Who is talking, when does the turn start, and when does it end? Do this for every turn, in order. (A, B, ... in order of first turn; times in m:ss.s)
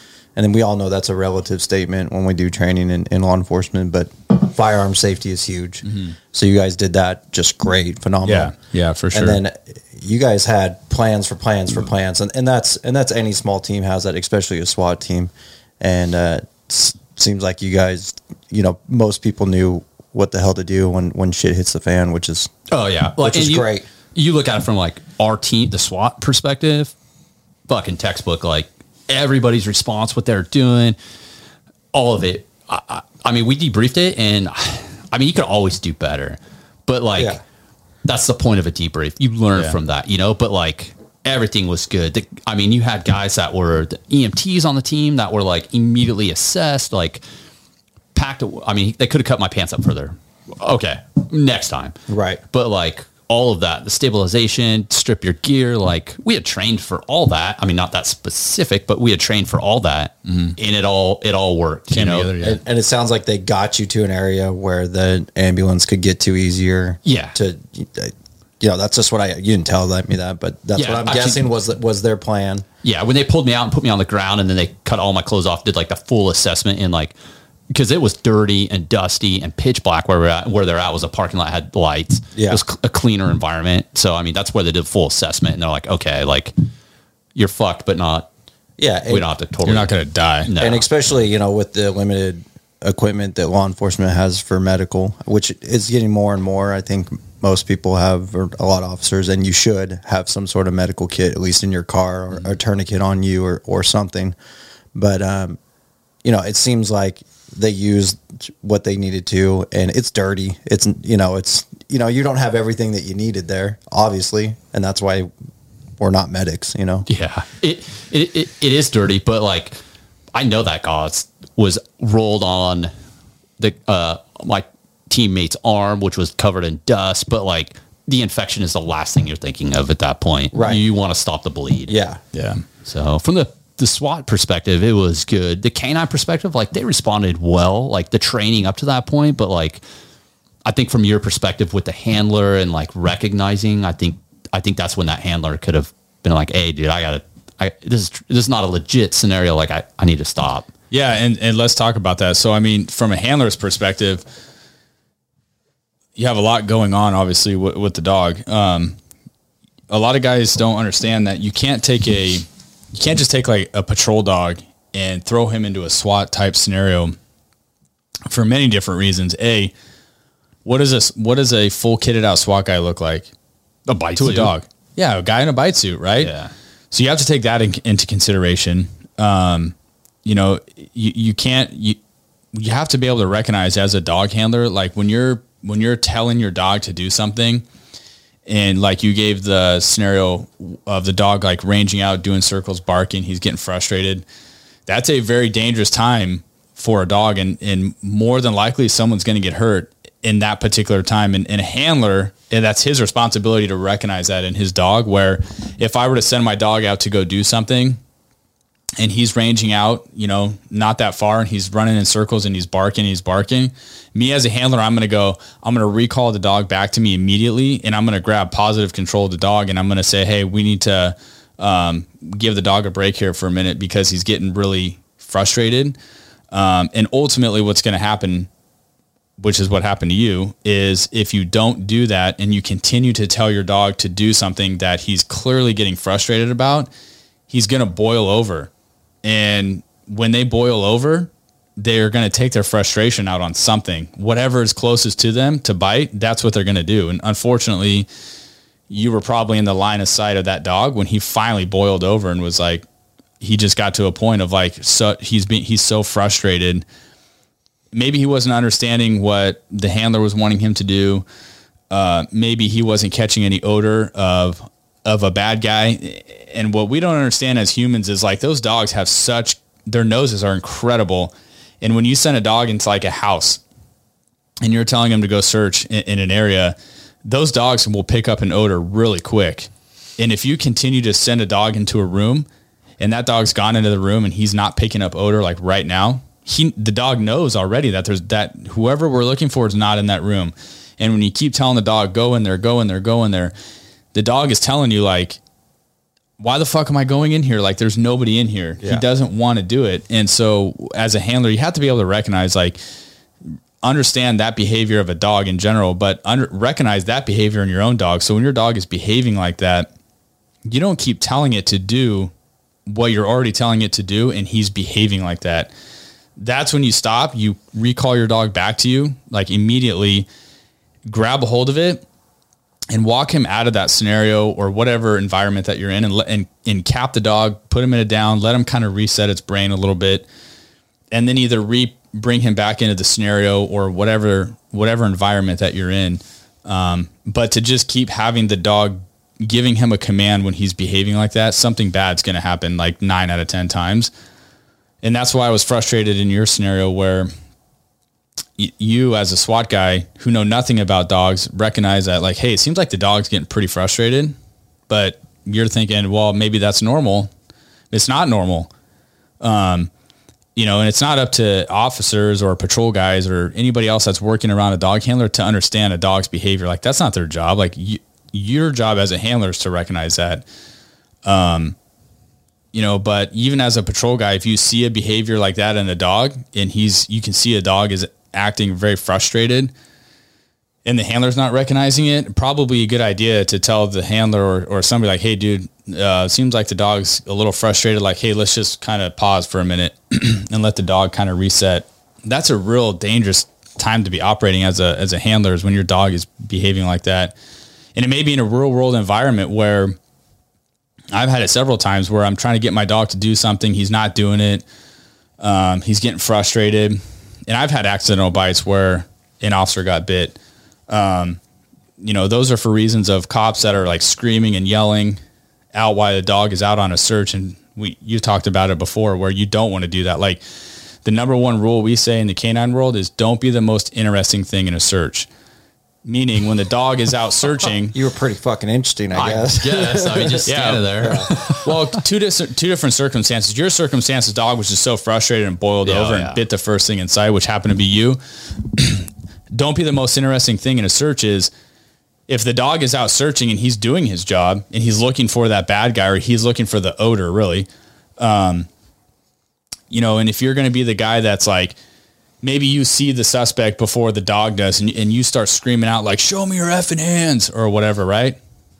0:00.4-0:08.5 A
0:05.8-0:06.1 B
0:08.2-0:09.4 B
0:09.1-0:22.5 A
0:22.7-0:26.9 C
0:23.2-0:23.8 A
0:27.7-0:31.0 C
0:31.9-0:37.4 C
0:38.0-0:47.2 C
0:48.1-0:52.0 C
0:52.1-0:52.4 A
0:52.5-1:02.4 C
1:00.2-1:00.5 B
1:01.9-1:02.6 B
1:02.4-1:12.6 A
1:07.0-1:07.4 C
1:10.7-1:11.4 C
1:12.8-1:17.1 C
1:17.7-1:26.5 C
1:22.3-1:22.6 A
1:27.4-1:28.3 C
1:28.8-1:29.3 A
1:29.1-1:29.9 C
1:29.6-1:30.5 B
1:30.4-1:30.8 C
1:30.6-1:44.4 A
1:44.9-1:45.6 A
1:46.2-1:55.3 A
1:56.0-1:57.0 A
1:57.1-1:59.8 C
2:00.3-2:02.9 C
2:03.6-2:11.9 C
2:10.5-2:10.8 A
2:11.9-2:12.2 A
2:12.3-2:12.6 B
2:12.8-2:19.8 C
2:20.6-2:30.7 C
2:30.9-2:34.2 B
2:36.2-2:39.0 B
2:39.9-2:47.1 B
2:48.3-2:49.7 B
2:50.6-2:53.3 B
2:53.9-2:54.5 C
2:54.1-2:56.3 B
2:56.2-2:56.5 C
2:56.9-2:59.7 B
3:00.2-3:02.0 B
3:02.5-3:07.6 B
3:08.4-3:14.2 B
3:14.9-3:28.0 B
3:29.0-3:46.0 B
3:46.5-3:48.5 B
3:49.4-3:56.9 B
3:57.5-3:58.7 B
3:59.2-4:08.1 B
4:08.9-4:12.8 B
4:13.4-4:16.8 B
4:17.9-4:21.2 B
4:21.9-4:33.6 B
4:34.6-4:42.4 B
4:43.0-4:53.5 B
4:54.1-4:55.4 B
4:56.4-5:02.8 B
5:03.8-5:09.9 B
5:10.6-5:12.3 B
5:12.9-5:15.7 B
5:16.4-5:20.3 B
5:21.0-5:22.0 B
5:22.9-5:30.2 B
5:31.1-5:44.1 B
5:45.0-5:47.3 B
5:48.6-5:54.4 B
5:54.9-5:57.3 B
5:57.9-5:58.7 B
5:59.4-5:59.9 B
6:00.6-6:10.4 B
6:11.2-6:11.8 B
6:12.7-6:19.7 B
6:20.8-6:37.3 B
6:37.9-6:40.0 B
6:41.1-6:44.6 B
6:45.4-6:50.4 B
6:50.9-6:51.4 B
6:52.0-6:55.2 B
6:55.7-7:00.4 B
7:01.0-7:05.3 B
7:06.0-7:08.0 B
7:07.9-7:10.5 A
7:09.1-7:12.0 C
7:10.5-7:18.2 B
7:11.0-7:11.3 A
7:15.8-7:16.4 C
7:18.7-7:21.5 B
7:22.3-7:27.7 B
7:28.2-7:28.7 B
7:29.9-7:31.7 B
7:32.4-7:38.4 B